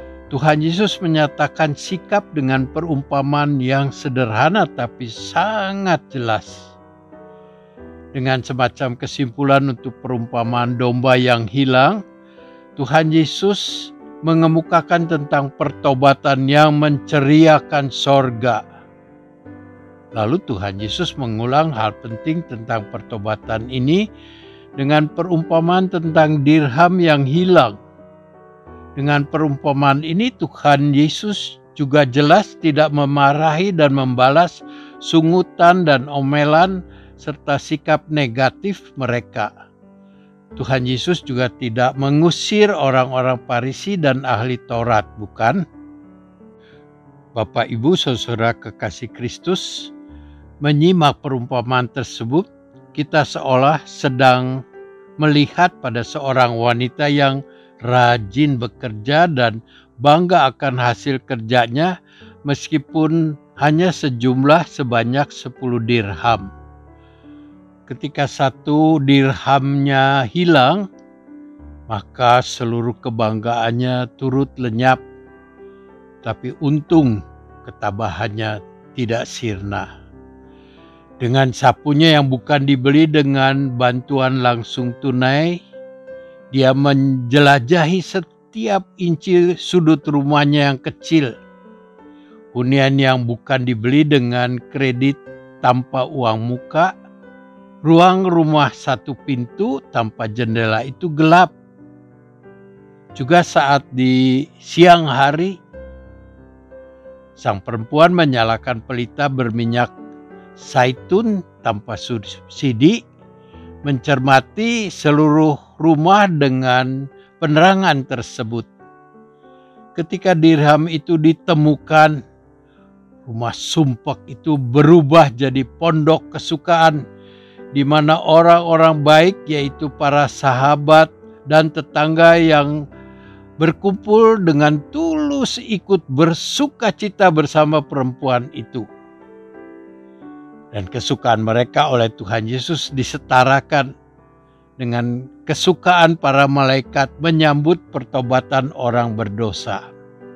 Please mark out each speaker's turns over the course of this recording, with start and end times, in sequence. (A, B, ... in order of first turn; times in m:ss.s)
0:00.3-0:06.7 A
0:08.1-0:12.0 A
0:12.8-0:18.6 A
0:20.1-0:24.0 A
0:24.8-0:27.8 A
0:29.0-0:39.5 A
0:40.6-0:45.6 A
0:47.4-0:49.9 A
0:50.6-0:54.6 A
0:55.2-1:01.9 A
1:02.5-1:06.5 A
1:07.9-1:10.9 A
1:11.9-1:15.0 A
1:16.2-1:19.9 A
1:21.2-1:25.6 A
1:26.5-1:31.3 A
1:32.5-1:36.9 A
1:37.8-1:41.5 A
1:43.2-1:45.6 A
1:47.4-1:49.9 A
1:50.6-1:53.0 A
1:53.8-1:58.7 A
2:00.0-2:02.2 A
2:03.3-2:07.0 A
2:07.7-2:12.8 A
2:13.6-2:18.9 A
2:20.7-2:23.9 A
2:24.8-2:29.8 A